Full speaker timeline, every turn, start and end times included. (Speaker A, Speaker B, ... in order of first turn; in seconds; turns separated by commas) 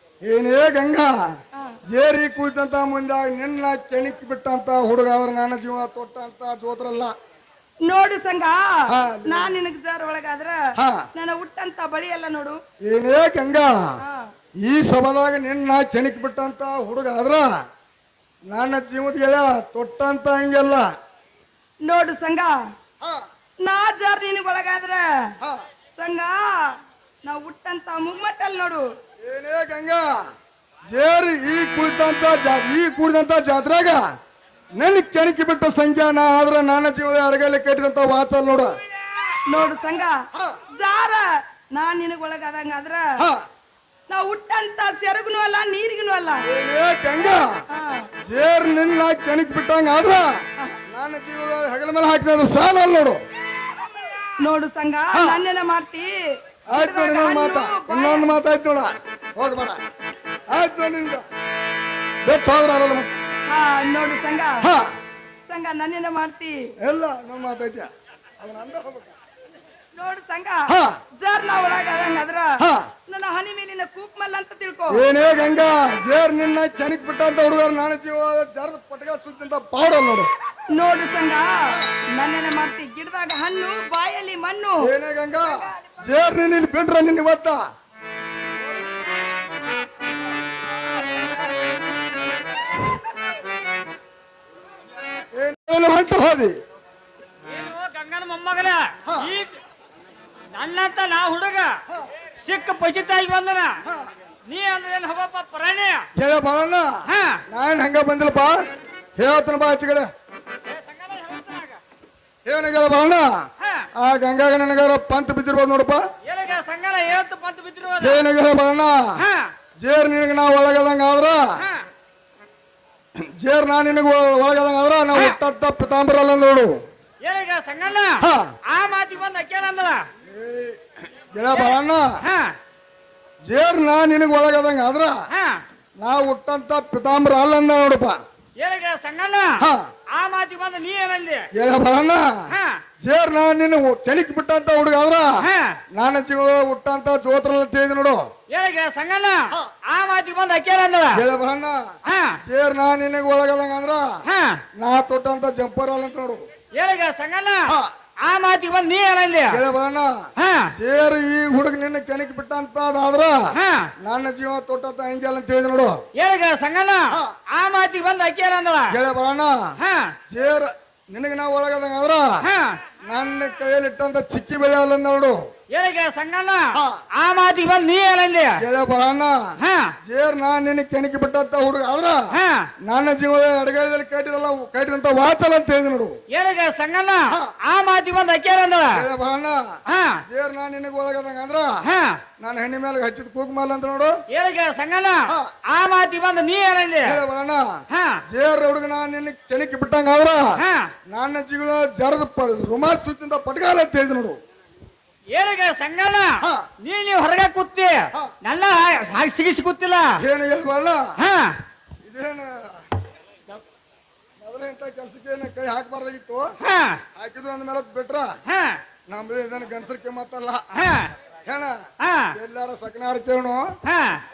Speaker A: 0.2-7.1, Speaker B: 7.8-10.6, Speaker A: 8.9-9.5, Speaker A: 10.8-11.1, Speaker B: 11.1-12.6, Speaker A: 12.8-13.9, Speaker B: 14.0-14.3, Speaker A: 14.6-17.6, Speaker A: 18.5-20.9, Speaker B: 21.8-22.6, Speaker B: 23.6-25.0, Speaker B: 26.0-28.9, Speaker A: 29.2-30.0, Speaker A: 30.9-34.1, Speaker A: 34.8-38.7, Speaker B: 39.5-40.2, Speaker A: 40.3-40.6, Speaker B: 40.8-43.1, Speaker A: 43.2-43.4, Speaker B: 44.1-46.5, Speaker A: 46.4-47.6, Speaker B: 47.7-48.1, Speaker A: 48.2-53.2, Speaker B: 54.4-58.3, Speaker A: 55.1-55.4, Speaker A: 56.7-59.8, Speaker A: 60.5-61.2, Speaker A: 62.2-63.1, Speaker B: 63.5-64.6, Speaker A: 64.6-64.9, Speaker B: 65.5-66.7, Speaker A: 66.8-69.1, Speaker B: 69.9-75.0, Speaker A: 70.7-71.0, Speaker A: 72.6-72.9, Speaker A: 74.9-80.3, Speaker B: 80.7-84.9, Speaker A: 84.8-87.6, Speaker B: 85.4-86.2, Speaker A: 95.3-96.5, Speaker C: 97.5-99.5, Speaker A: 99.1-99.3, Speaker C: 100.5-101.8, Speaker C: 102.4-103.8, Speaker C: 104.5-106.1, Speaker A: 106.2-108.6, Speaker C: 107.0-107.4, Speaker A: 109.2-110.1, Speaker C: 110.6-111.8, Speaker A: 112.5-116.0, Speaker C: 113.6-113.9, Speaker C: 116.2-118.2, Speaker A: 118.0-119.2, Speaker C: 119.2-119.5, Speaker A: 119.8-121.5, Speaker C: 121.5-121.8, Speaker A: 123.2-126.8, Speaker C: 127.2-130.1, Speaker A: 128.2-128.5, Speaker A: 130.2-132.2, Speaker C: 131.5-132.5, Speaker A: 133.4-135.2, Speaker C: 135.3-135.6, Speaker A: 136.0-138.2, Speaker C: 138.6-141.5, Speaker A: 139.6-139.9, Speaker A: 141.5-148.3, Speaker C: 142.5-142.8, Speaker C: 145.4-145.8, Speaker C: 148.5-151.2, Speaker A: 151.1-151.8, Speaker C: 152.1-152.4, Speaker A: 152.4-154.2, Speaker C: 154.2-154.6, Speaker A: 154.7-156.4, Speaker C: 156.7-159.6, Speaker A: 157.7-157.9, Speaker A: 159.5-166.0, Speaker C: 160.4-160.7, Speaker C: 163.5-163.9, Speaker C: 166.2-168.9, Speaker A: 167.1-167.4, Speaker A: 168.9-169.8, Speaker C: 169.8-170.2, Speaker A: 170.3-172.4, Speaker C: 172.4-172.8, Speaker A: 173.0-175.5, Speaker C: 175.7-178.6, Speaker A: 176.7-177.0, Speaker A: 178.6-182.2, Speaker C: 179.6-179.9, Speaker C: 182.3-182.7, Speaker A: 182.8-186.2, Speaker C: 186.3-189.0, Speaker A: 188.9-191.8, Speaker C: 189.9-190.2, Speaker C: 191.8-192.2, Speaker A: 192.4-194.2, Speaker C: 194.3-197.2, Speaker A: 195.3-195.5, Speaker A: 197.0-204.4, Speaker C: 197.9-198.2, Speaker C: 200.6-200.9, Speaker C: 205.3-210.2, Speaker A: 206.4-206.7, Speaker A: 210.2-211.2, Speaker C: 211.2-211.6, Speaker A: 212.0-212.9, Speaker A: 214.4-216.6, Speaker C: 216.6-217.0, Speaker A: 217.1-218.3, Speaker C: 218.5-218.8, Speaker A: 219.1-220.7, Speaker C: 220.7-221.1, Speaker A: 221.4-223.7, Speaker C: 222.0-222.3, Speaker C: 223.8-224.2